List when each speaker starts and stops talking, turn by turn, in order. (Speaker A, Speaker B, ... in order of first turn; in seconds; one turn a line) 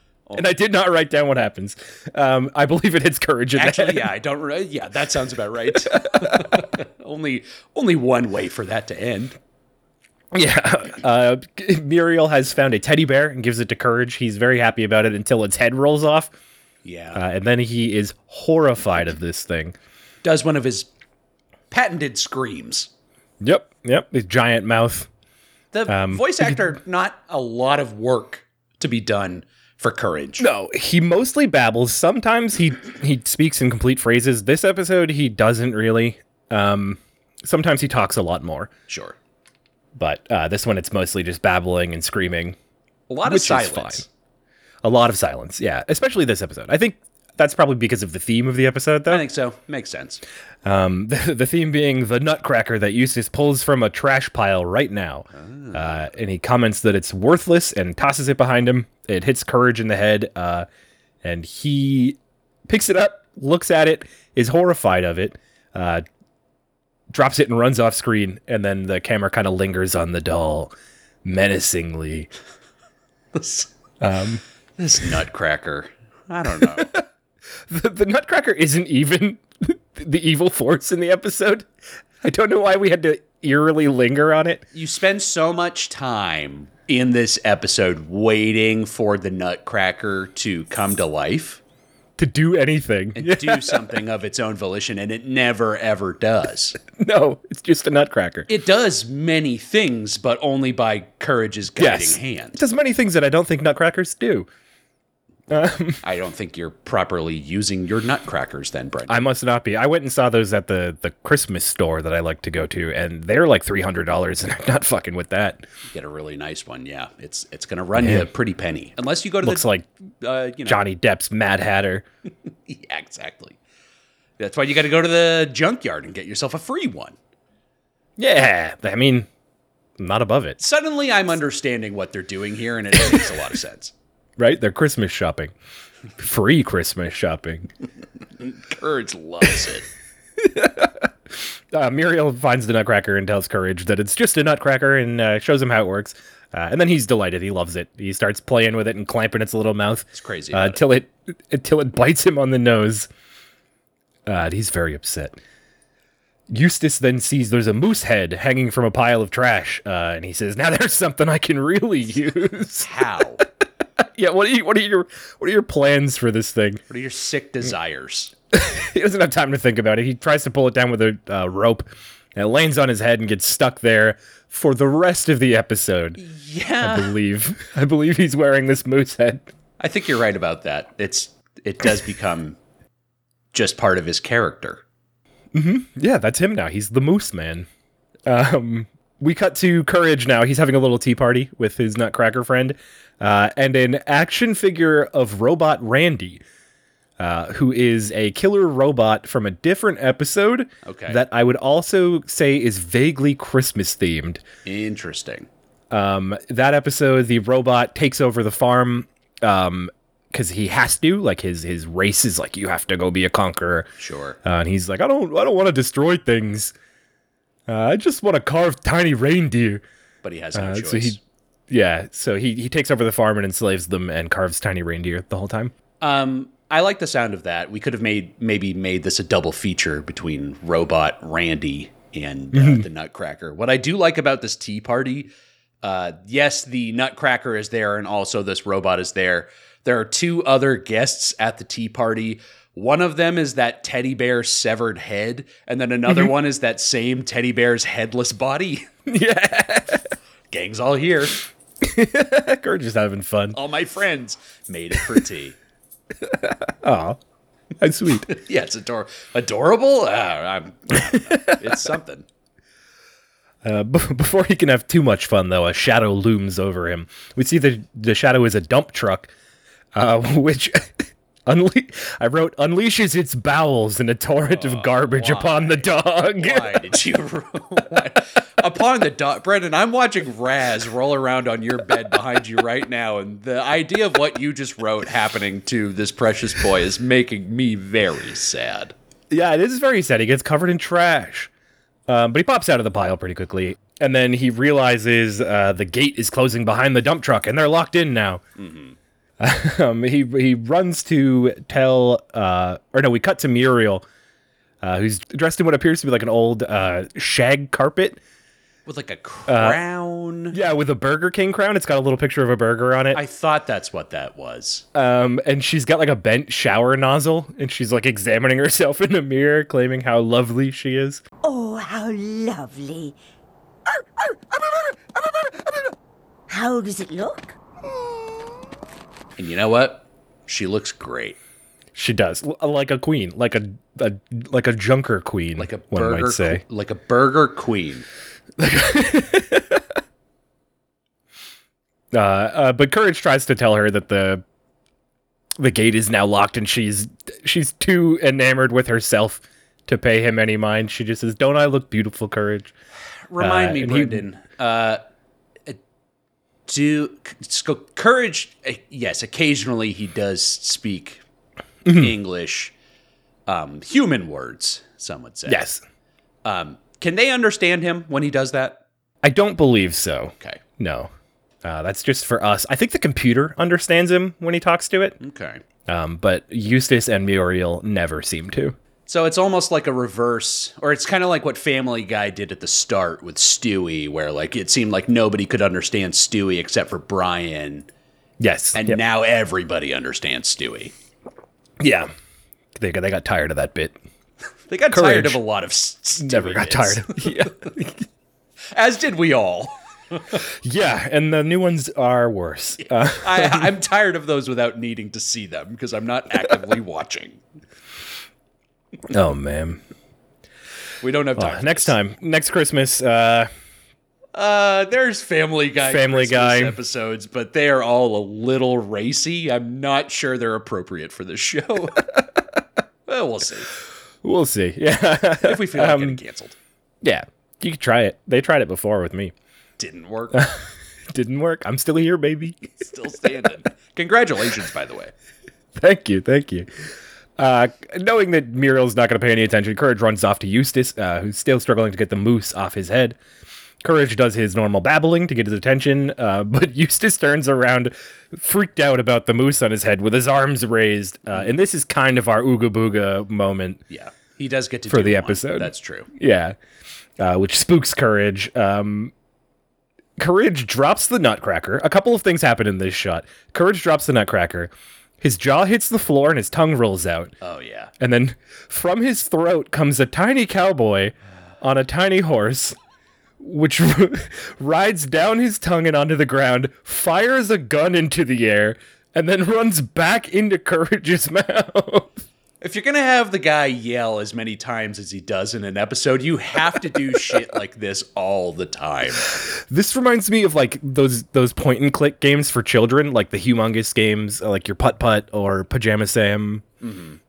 Speaker A: 0.3-4.1
Speaker B: 3.5-9.3
Speaker A: 5.9-6.5
Speaker A: 10.3-16.3
Speaker B: 16.8-17.2
Speaker A: 17.1-19.7
Speaker B: 20.2-20.9
Speaker B: 21.7-22.9
Speaker A: 23.4-25.1
Speaker B: 25.7-30.5
Speaker A: 25.9-26.7
Speaker A: 30.4-38.7
Speaker B: 38.9-39.2
Speaker A: 40.0-42.5
Speaker B: 43.1-44.0
Speaker A: 43.2-44.0
Speaker A: 44.8-49.2
Speaker B: 49.1-50.2
Speaker A: 50.6-60.7
Speaker B: 55.3-56.1
Speaker A: 61.2-66.0
Speaker A: 67.1-70.7
Speaker A: 71.2-72.3
Speaker B: 73.3-73.7
Speaker A: 74.0-74.4
Speaker B: 74.8-76.9
Speaker A: 76.7-77.0
Speaker A: 77.7-81.7
Speaker A: 82.2-84.6
Speaker B: 84.7-91.6
Speaker A: 92.2-93.8
Speaker B: 93.2-96.8
Speaker A: 96.9-98.5
Speaker B: 98.5-102.6
Speaker A: 101.8-104.5
Speaker A: 105.5-106.0
Speaker B: 106.0-109.3
Speaker A: 109.1-115.6
Speaker B: 115.9-119.7
Speaker A: 118.0-118.3
Speaker A: 119.4-119.9
Speaker B: 120.2-120.8
Speaker A: 120.7-122.0
Speaker B: 122.7-123.6
Speaker B: 124.4-127.2
Speaker A: 128.2-129.3
Speaker A: 130.0-130.6
Speaker B: 130.6-133.9
Speaker A: 134.4-135.5
Speaker A: 136.2-137.7
Speaker B: 138.4-139.9
Speaker A: 140.4-153.1
Speaker B: 150.1-150.8
Speaker A: 154.2-155.4
Speaker A: 156.5-163.4
Speaker B: 162.8-163.4
Speaker A: 164.0-166.8
Speaker B: 166.9-168.3
Speaker A: 168.5-176.2
Speaker B: 176.2-177.2
Speaker A: 176.8-179.5
Speaker B: 179.8-182.6
Speaker B: 183.5-184.8
Speaker A: 185.5-187.7
Speaker A: 188.3-196.4
Speaker A: 197.2-204.4
Speaker B: 200.8-201.2
Speaker B: 204.6-205.5
Speaker A: 205.9-213.9
Speaker B: 214.0-214.4
Speaker A: 214.4-216.7
Speaker A: 217.7-219.8
Speaker B: 220.2-221.2
Speaker A: 220.5-221.2
Speaker A: 221.7-225.7
Speaker B: 226.0-235.3
Speaker A: 232.5-232.8
Speaker B: 235.8-248.9
Speaker A: 249.1-250.1
Speaker B: 250.5-251.4
Speaker A: 251.8-253.6
Speaker B: 253.5-255.6
Speaker A: 256.2-257.2
Speaker A: 257.8-258.3
Speaker B: 258.3-262.2
Speaker A: 263.6-269.3
Speaker A: 269.9-276.7
Speaker B: 274.4-288.9
Speaker A: 289.3-291.5
Speaker A: 292.1-298.4
Speaker B: 298.6-298.9
Speaker A: 299.4-304.0
Speaker A: 304.8-308.2
Speaker B: 308.9-310.6
Speaker A: 309.5-309.8
Speaker A: 310.5-313.2
Speaker B: 313.1-314.8
Speaker A: 314.9-321.2
Speaker C: 321.4-323.1
Speaker C: 323.9-325.9
Speaker C: 326.5-327.6
Speaker B: 329.4-331.4
Speaker A: 331.9-336.6
Speaker B: 335.6-338.1
Speaker A: 338.6-339.9
Speaker A: 342.1-344.4
Speaker A: 345.6-352.7
Speaker B: 353.3-355.0
Speaker A: 353.4-354.2
Speaker B: 356.7-361.2
Speaker A: 361.8-362.1
Speaker B: 361.9-362.7
Speaker B: 363.5-365.7
Speaker A: 365.5-365.8
Speaker B: 366.4-368.8
Speaker A: 369.2-371.1
Speaker A: 371.6-375.2
Speaker B: 375.2-375.6
Speaker A: 375.9-378.7
Speaker B: 379.1-387.9
Speaker A: 388.4-389.0
Speaker B: 388.8-390.9
Speaker A: 391.8-392.1
Speaker A: 392.8-393.9
Speaker B: 394.7-397.5
Speaker A: 394.9-395.4
Speaker A: 396.2-398.0
Speaker B: 398.7-400.2
Speaker A: 400.5-403.7
Speaker B: 402.8-407.4
Speaker A: 409.1-409.8
Speaker B: 411.0-411.9
Speaker A: 411.4-413.5
Speaker B: 414.3-422.1
Speaker A: 415.8-416.8
Speaker B: 423.1-423.7
Speaker A: 424.2-426.2
Speaker B: 425.4-426.6
Speaker A: 427.0-429.3
Speaker B: 429.8-430.4
Speaker A: 430.3-432.8
Speaker B: 432.8-435.1
Speaker A: 435.7-436.7
Speaker A: 437.4-443.2
Speaker A: 443.8-453.8
Speaker B: 453.9-456.1
Speaker A: 454.9-456.6
Speaker A: 457.2-459.1
Speaker A: 460.2-467.3
Speaker B: 467.4-467.9
Speaker A: 468.0-472.8
Speaker A: 473.4-482.2
Speaker B: 482.6-489.4
Speaker A: 489.3-496.6
Speaker B: 496.8-497.2